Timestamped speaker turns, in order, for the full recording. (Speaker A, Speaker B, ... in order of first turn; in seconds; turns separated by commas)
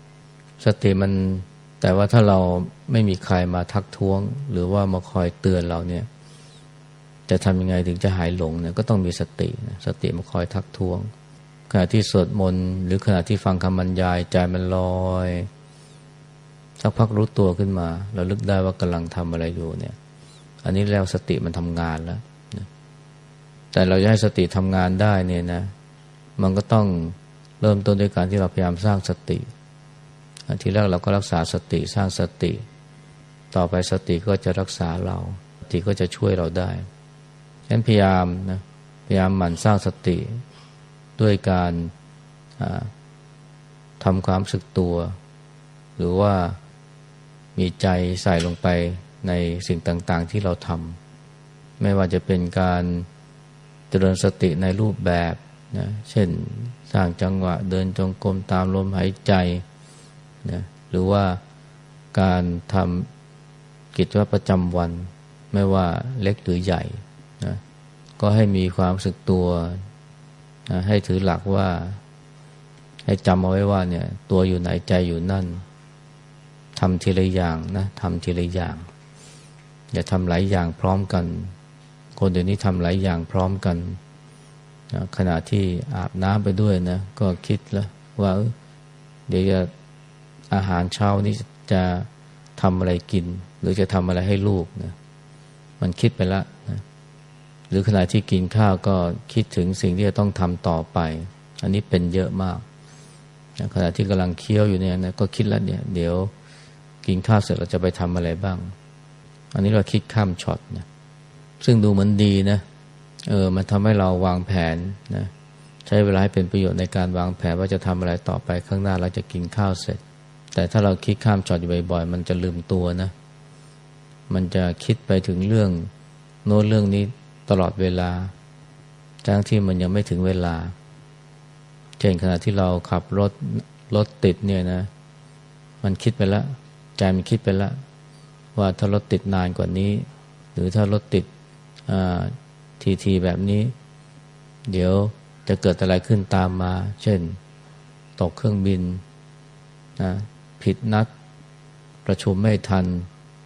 Speaker A: 0.6-6.1, Speaker A: 7.3-11.1, Speaker A: 11.7-15.5, Speaker A: 16.8-19.9, Speaker A: 20.6-22.7, Speaker A: 23.7-25.7, Speaker A: 26.4-29.4, Speaker A: 30.5-32.6, Speaker A: 33.5-36.9, Speaker A: 37.7-40.4, Speaker A: 41.2-41.9, Speaker A: 42.6-42.9, Speaker A: 44.0-45.1, Speaker A: 46.0-46.6, Speaker A: 47.5-51.0, Speaker A: 51.8-53.1, Speaker A: 53.9-59.6, Speaker A: 60.4-61.4, Speaker A: 62.1-63.1, Speaker A: 63.9-67.6, Speaker A: 68.2-69.8, Speaker A: 70.7-72.0, Speaker A: 73.0-75.6, Speaker A: 76.7-78.9, Speaker A: 79.9-81.5, Speaker A: 82.2-84.0, Speaker A: 84.9-88.5, Speaker A: 89.3-89.7, Speaker A: 90.5-95.0, Speaker A: 95.8-96.8, Speaker A: 97.7-102.6, Speaker A: 103.6-106.3, Speaker A: 107.0-108.7, Speaker A: 109.5-110.8, Speaker A: 111.6-112.6, Speaker A: 113.2-115.3, Speaker A: 115.8-120.0, Speaker A: 120.5-123.1, Speaker A: 124.3-125.9, Speaker A: 126.4-128.3, Speaker A: 129.2-130.7, Speaker A: 132.0-134.9, Speaker A: 135.8-137.7, Speaker A: 138.5-141.3, Speaker A: 141.9-143.7, Speaker A: 144.7-147.4, Speaker A: 148.2-149.0, Speaker A: 150.0-151.1, Speaker A: 152.0-153.1